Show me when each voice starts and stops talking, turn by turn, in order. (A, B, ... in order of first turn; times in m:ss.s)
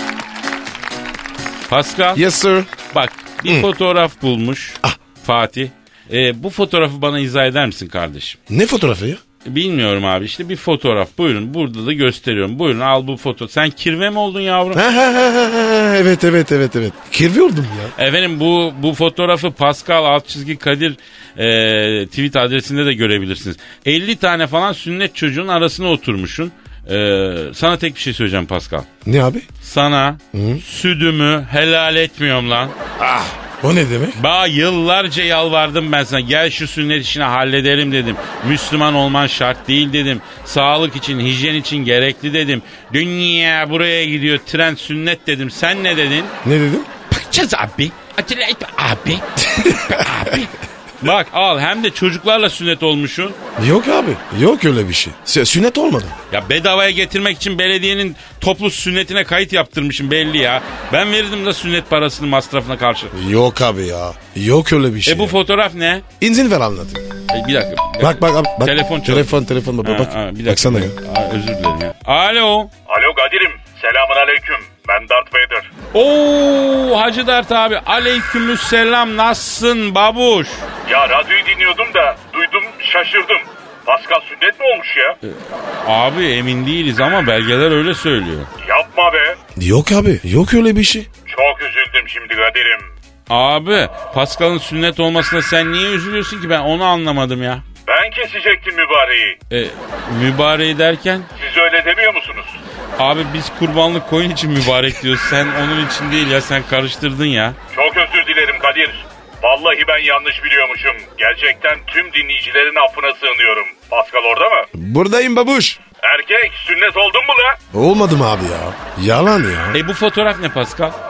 0:01.7-0:02.2 A
0:02.2-0:02.7 B
0:02.9-0:08.4 A
0:08.5-0:09.2 B
0:09.4-0:14.8 A
0:14.7-0:17.9 B
0:18.0-0:28.9 A
0:29.0-0:29.5 B
0:29.6-0:32.8 A
0:30.3-0:30.6 B
0:33.0-0:34.2 B
0:34.2-0:46.4 A
0:46.4-0:46.9 B
0:47.1-0:53.4 A
0:49.5-0:50.4 B
0:53.6-0:56.2 B
0:56.3-1:03.1 A
1:03.1-1:05.4 B
1:05.1-1:06.0 A
1:06.2-1:07.1 B
1:07.3-1:12.7 A
1:08.0-1:11.0 B
1:12.9-1:15.7 C
1:15.9-1:20.7 A
1:20.9-1:25.2 C
1:25.2-1:28.5 A
1:28.6-1:29.4 C
1:29.6-1:31.1 B
1:31.3-1:32.9 C
1:33.3-1:37.6 A
1:37.9-1:39.4 C
1:39.5-1:41.3 A
1:41.4-1:42.6 C
1:43.0-1:47.6 A
1:47.7-1:54.7 C
1:54.7-1:55.8 B
1:56.0-1:57.6 C
1:57.7-1:59.8 B
1:59.7-2:01.0 A